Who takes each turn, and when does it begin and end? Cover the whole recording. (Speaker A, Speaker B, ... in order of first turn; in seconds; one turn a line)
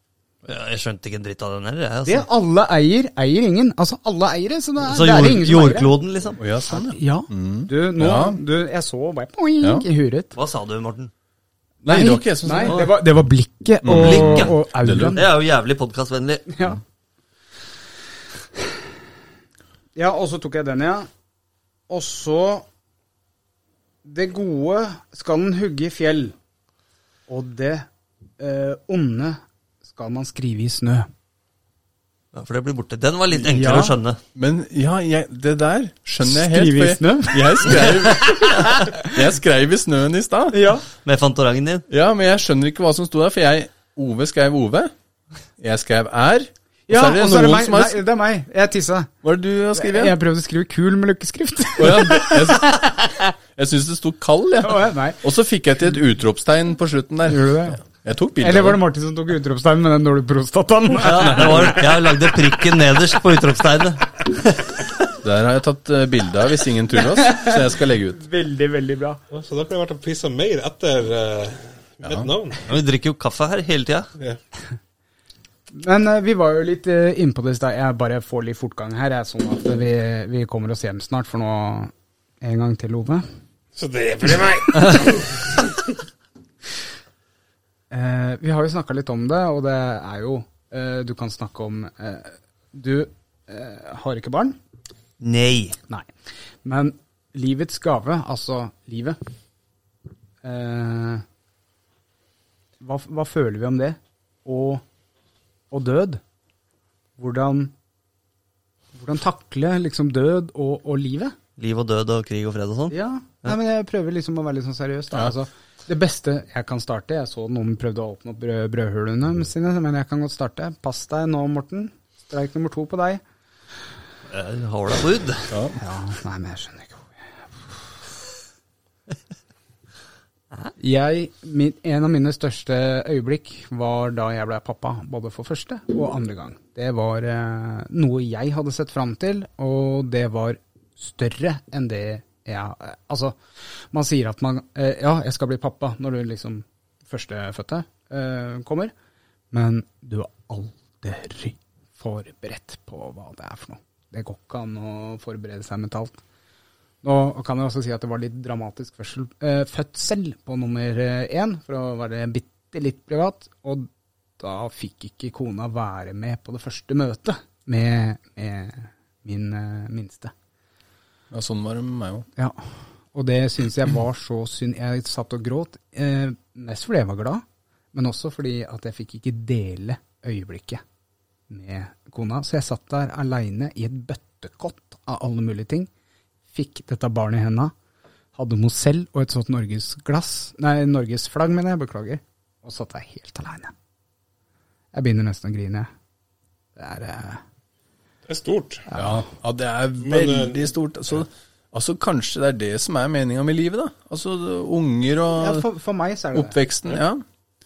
Speaker A: 0.4-2.2
Speaker B: 2.0-5.9
Speaker A: 4.8-6.4
Speaker C: 6.4-8.4
Speaker B: 6.7-10.3
Speaker A: 10.3-11.1
Speaker C: 11.8-12.9
Speaker B: 11.8-15.2
Speaker C: 13.8-15.2
Speaker A: 13.9-14.6
Speaker A: 15.1-16.5
Speaker B: 16.5-16.8
Speaker B: 19.9-21.1
Speaker B: 21.9-22.6
Speaker B: 24.0-26.3
Speaker B: 27.3-27.9
Speaker B: 28.4-31.1
Speaker A: 32.3-34.2
Speaker B: 33.4-34.0
Speaker C: 34.3-40.7
Speaker B: 36.2-39.1
Speaker B: 40.5-40.8
Speaker A: 41.0-41.9
Speaker C: 41.9-44.9
Speaker C: 45.6-48.0
Speaker B: 46.9-49.1
Speaker C: 49.2-50.1
Speaker B: 49.7-53.3
Speaker C: 51.8-53.0
Speaker C: 53.5-58.8
Speaker B: 54.6-55.2
Speaker B: 57.3-57.8
Speaker B: 58.4-61.9
Speaker A: 61.0-64.3
Speaker C: 61.4-61.6
Speaker C: 65.2-68.2
Speaker B: 67.1-67.6
Speaker B: 68.2-69.2
Speaker D: 69.3-72.6
Speaker C: 72.0-72.3
Speaker A: 72.7-74.1
Speaker B: 75.7-83.2
Speaker D: 83.8-85.7
Speaker B: 87.9-94.6
Speaker A: 95.2-95.8
Speaker B: 96.6-99.2
Speaker B: 100.4-101.2
Speaker B: 102.8-104.8
Speaker B: 105.7-106.2
Speaker B: 107.2-107.7
Speaker B: 108.9-111.3
Speaker A: 111.6-113.5
Speaker B: 112.9-123.2
Speaker A: 124.3-125.5
Speaker C: 125.5-125.8
Speaker B: 125.8-127.1
Speaker B: 130.8-143.3
Speaker B: 143.9-148.9
Speaker B: 149.5-156.2
Speaker B: 157.0-163.9
Speaker B: 164.4-170.3
Speaker C: 171.3-172.3
Speaker B: 173.1-180.8
Speaker B: 181.5-185.9
Speaker B: 186.5-187.7
Speaker B: 188.3-193.7
Speaker B: 194.9-195.9
Speaker B: 196.8-197.4
Speaker D: 198.3-198.8
Speaker B: 198.9-199.2
Speaker C: 198.9-205.6
Speaker D: 200.0-200.7
Speaker B: 205.3-206.6
Speaker C: 206.3-207.2